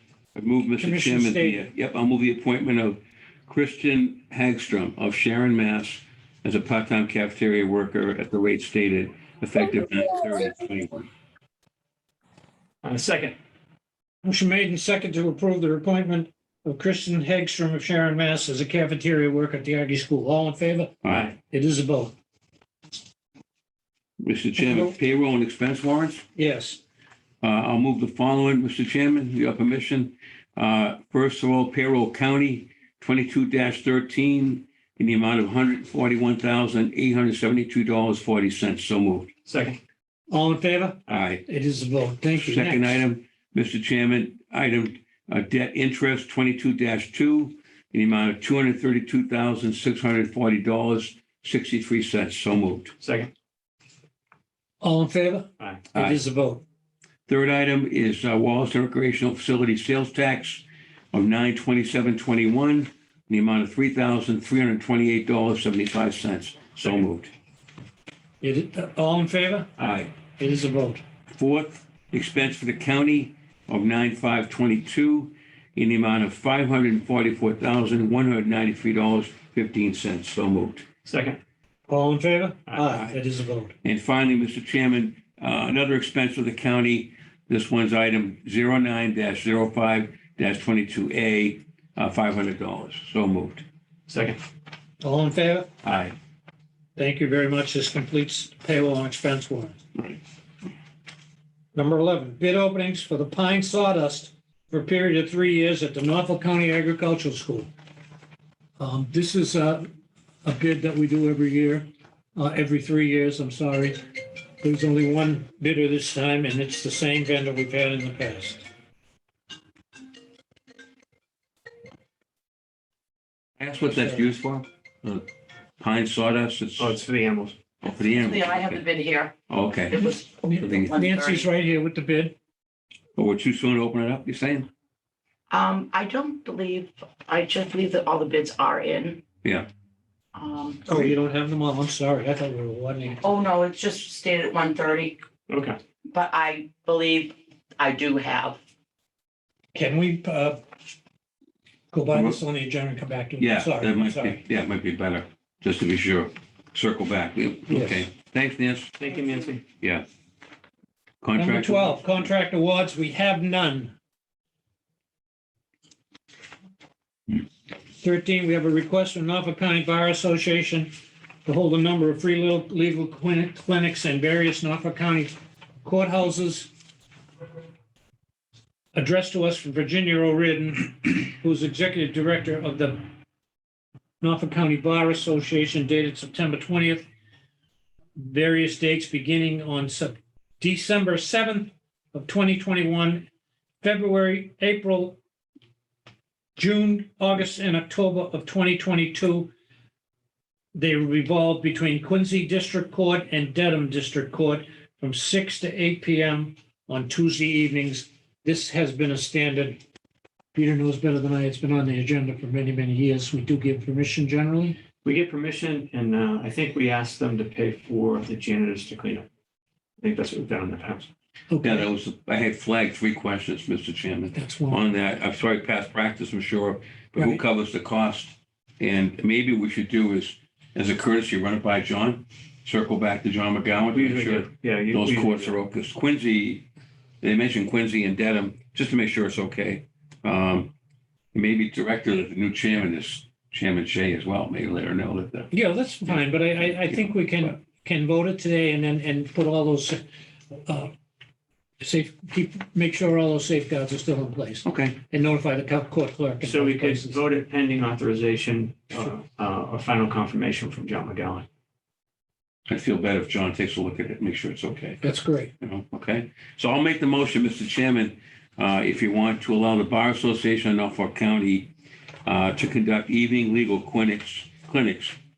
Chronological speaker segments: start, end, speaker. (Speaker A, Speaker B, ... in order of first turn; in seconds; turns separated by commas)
Speaker A: 0.3-11.1, Speaker B: 0.8-1.6, Speaker C: 12.8-13.4, Speaker B: 14.2-20.9, Speaker A: 21.0-21.3, Speaker C: 21.1-21.3, Speaker B: 21.5-22.1, Speaker A: 24.2-26.2, Speaker B: 24.6-24.9, Speaker B: 26.4-26.8, Speaker A: 27.4-39.3, Speaker C: 39.5-39.8, Speaker B: 40.3-43.0, Speaker A: 41.1-41.4, Speaker A: 42.3-52.9, Speaker C: 53.0-53.3, Speaker B: 54.8-56.6, Speaker A: 57.3-67.3, Speaker B: 68.4-69.7, Speaker A: 69.8-70.0, Speaker B: 70.4-71.0, Speaker A: 71.3-80.8, Speaker C: 81.0-81.4, Speaker B: 81.9-83.7, Speaker A: 83.8-93.6, Speaker C: 94.1-94.4, Speaker B: 95.0-95.7, Speaker C: 95.8-96.1, Speaker B: 97.0-99.8, Speaker B: 101.7-107.7, Speaker B: 108.8-109.9, Speaker B: 110.4-114.0, Speaker B: 114.6-118.6, Speaker A: 123.6-125.2, Speaker B: 123.9-124.3, Speaker A: 125.8-127.0, Speaker C: 126.8-127.6, Speaker A: 127.8-128.8, Speaker D: 128.1-129.3, Speaker A: 129.5-131.0, Speaker D: 129.9-131.4, Speaker B: 130.4-132.3, Speaker A: 133.2-134.7, Speaker D: 135.5-139.2, Speaker D: 140.3-140.9, Speaker B: 140.8-143.2, Speaker D: 143.2-145.2, Speaker C: 145.5-145.8, Speaker D: 146.1-148.6, Speaker B: 149.7-150.6, Speaker B: 151.9-154.4, Speaker A: 152.1-152.4, Speaker A: 153.4-159.0, Speaker B: 157.7-158.1, Speaker C: 159.0-159.6, Speaker A: 159.8-160.0, Speaker A: 161.2-162.0, Speaker B: 161.3-163.9, Speaker B: 168.0-170.9, Speaker B: 171.4-176.7, Speaker B: 178.9-183.0, Speaker B: 184.2-187.1, Speaker B: 188.2-193.3, Speaker B: 193.8-195.2, Speaker B: 196.6-199.5, Speaker B: 200.7-209.8, Speaker B: 210.5-214.8, Speaker C: 215.0-219.2, Speaker C: 220.0-221.1, Speaker B: 221.5-221.9, Speaker A: 221.6-236.7, Speaker B: 224.3-224.8, Speaker B: 227.2-227.4, Speaker C: 233.8-235.6, Speaker A: 237.2-240.7, Speaker A: 241.3-245.5, Speaker B: 245.5-250.9, Speaker A: 246.6-247.5, Speaker B: 251.8-257.2, Speaker A: 254.6-255.0, Speaker C: 256.4-261.4, Speaker A: 262.7-271.7, Speaker B: 265.0-265.5, Speaker A: 272.2-275.1